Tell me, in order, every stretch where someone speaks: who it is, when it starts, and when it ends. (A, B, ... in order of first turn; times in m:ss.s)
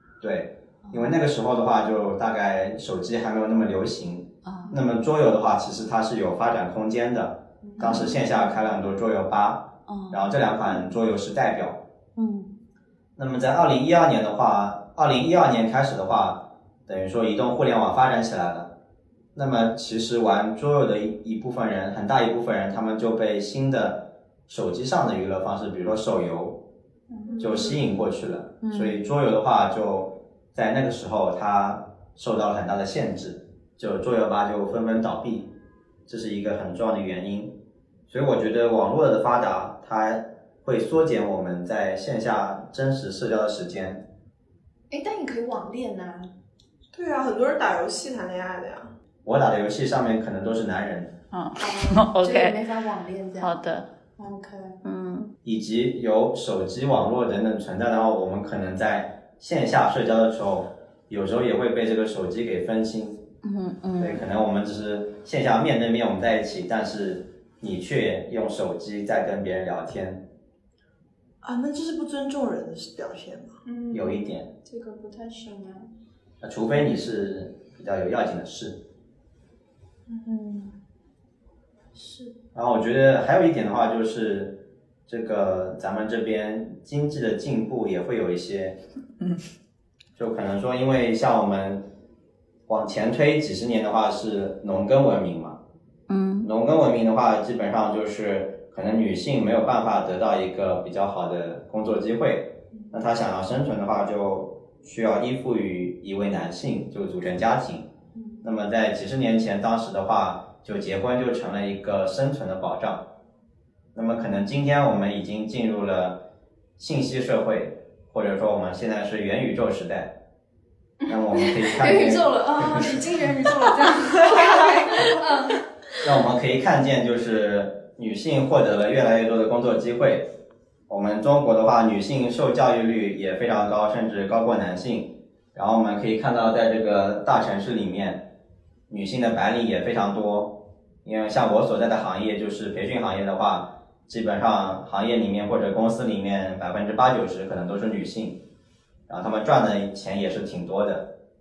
0:00.2-0:11.8 A
0:04.4-0:04.8 B
0:07.7-0:08.0 C
0:07.8-0:08.2 B
0:09.9-0:10.4 B
0:12.2-0:12.5 B
0:13.2-0:18.7 A
0:19.3-0:26.6 A
0:27.1-0:27.8 C
0:27.4-0:35.5 A
0:28.6-0:29.0 B
0:36.1-0:37.5 A
0:38.1-0:44.0 A
0:44.9-0:46.3 C
0:46.9-0:48.9 D
0:49.2-0:51.1 A
0:51.3-0:52.6 B
0:51.6-0:53.5 C
0:53.4-0:53.9 B
0:54.2-0:54.8 C
0:54.8-0:55.3 B
0:55.4-1:03.2 A
1:03.4-1:04.2 B
1:04.0-1:10.2 A
1:11.4-1:13.6 D
1:13.6-1:15.9 C
1:13.9-1:14.5 A
1:16.4-1:18.8 A
1:20.1-1:20.7 C
1:21.9-1:22.4 C
1:22.5-1:28.8 A
1:30.2-1:31.8 A
1:32.7-1:35.6 A
1:36.1-1:36.5 B
1:36.4-1:47.9 A
1:48.1-1:48.4 C
1:48.4-1:53.1 A
1:53.9-1:56.2 A
1:56.8-2:00.2 A
2:01.0-2:06.0 C
2:01.1-2:03.0 A
2:06.0-2:10.3 A
2:10.9-2:18.3 A
2:18.9-2:28.4 A
2:29.1-2:31.1 A